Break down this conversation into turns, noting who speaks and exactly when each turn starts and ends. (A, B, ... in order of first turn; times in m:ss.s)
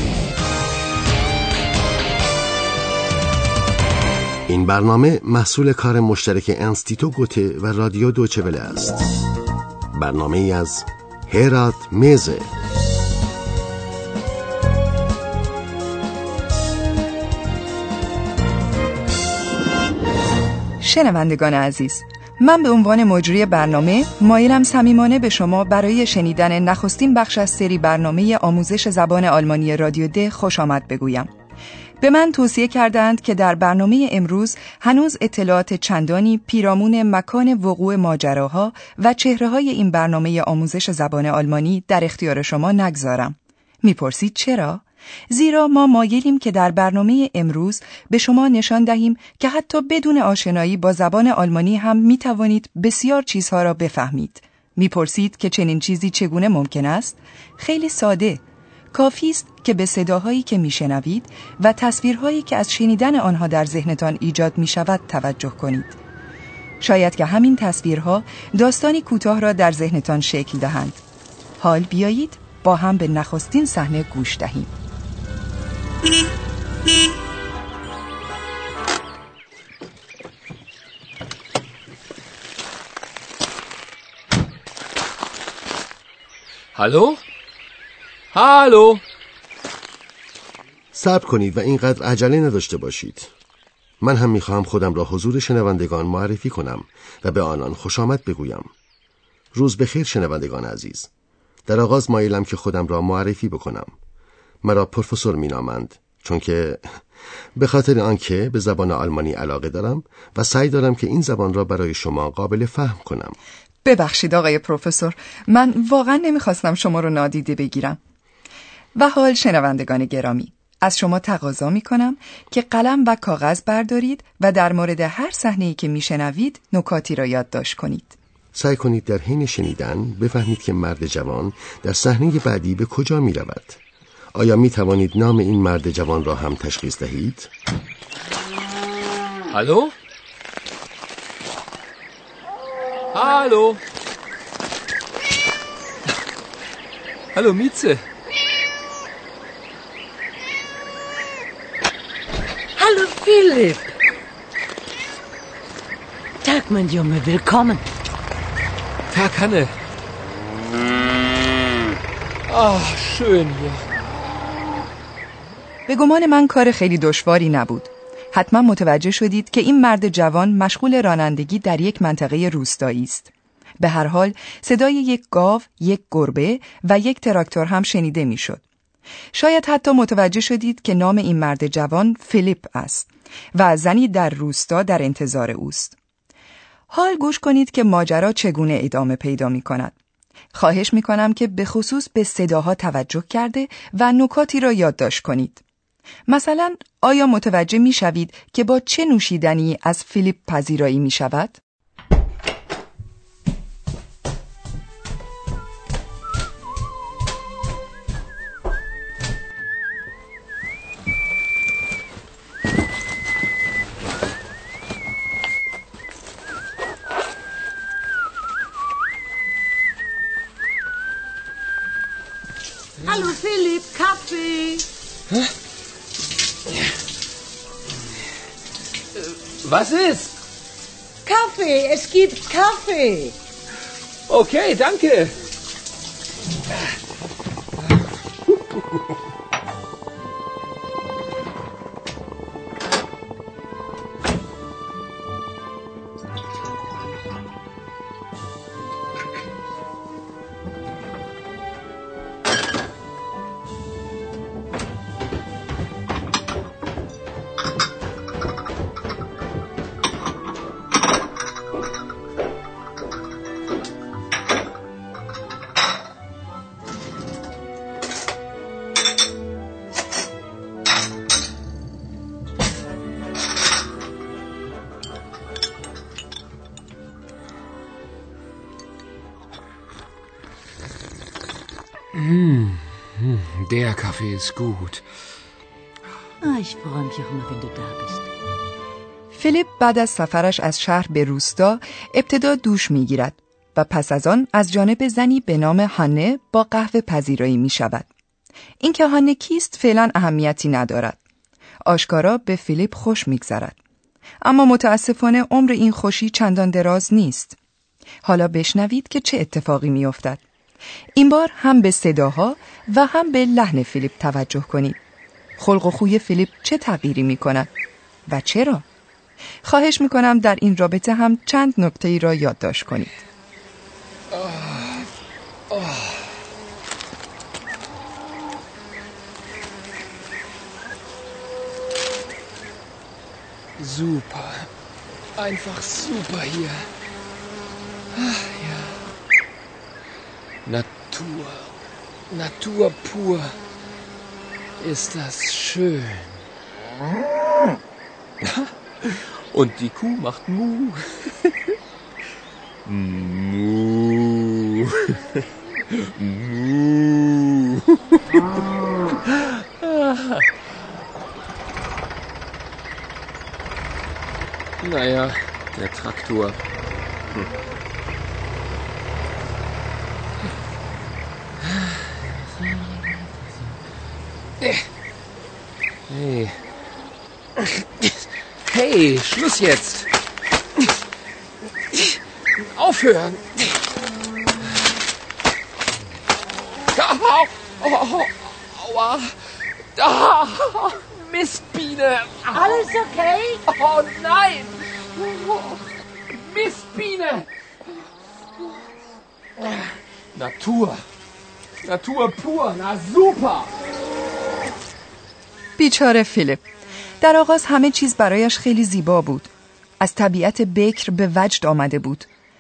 0:04.5-0:09.1 A
0:09.9-0:12.5 A
0:20.8-0:31.3 B
0:32.0-1:06.0 B
1:06.8-1:11.0 B
1:11.6-1:14.7 B
1:26.8-1:27.2 C
1:28.3-1:29.0 C
1:30.9-1:33.3 A
1:34.0-1:38.7 A
1:39.5-1:41.1 A
1:41.7-1:43.9 A
1:44.6-1:46.9 A
1:47.6-1:53.4 A
1:53.8-1:58.0 B
1:59.0-2:08.2 B
2:08.5-2:13.8 A
2:14.3-2:17.5 A
2:19.5-2:19.9 C
2:23.1-2:23.8 C
2:27.3-2:28.0 C
2:32.8-2:33.9 D
2:36.4-2:37.9 D
2:39.1-2:39.8 C
2:42.5-2:43.9 C
2:45.9-2:58.6 B
2:59.3-3:06.0 B
3:06.9-3:10.0 B
3:10.5-3:15.6 B
3:16.3-3:21.6 B
3:43.0-3:44.9 D
3:49.2-3:50.3 C
3:51.2-3:53.4 D
3:54.3-3:55.4 C
4:42.2-4:45.0 C
4:46.4-4:48.3 D
4:49.3-4:58.1 B
4:58.8-5:01.2 B
5:01.8-5:03.8 B
5:04.4-5:07.6 B
5:08.2-5:10.4 B
5:11.2-5:15.0 B
5:15.6-5:17.7 B
5:18.3-5:18.8 B
5:19.6-5:23.2 B
5:24.3-5:25.1 C
5:25.7-5:26.1 C
5:33.8-5:34.7 C
5:35.4-5:36.9 C
5:38.1-5:39.0 C
5:40.6-5:41.7 C
5:42.3-5:43.6 C
5:44.8-5:46.4 C
5:48.4-5:51.5 C
5:52.9-5:55.2 C
5:55.9-5:57.8 C
6:04.8-6:06.6 C
6:16.1-6:16.6 C
6:18.0-6:20.1 C
6:21.9-6:23.8 C
6:27.0-6:29.4 C
6:30.0-6:32.9 C
6:32.6-6:33.6 D
6:33.6-6:35.8 C
6:36.3-6:37.5 C
6:40.3-6:41.0 C
6:41.8-6:43.7 C
6:45.8-6:46.6 B
6:47.2-6:52.3 B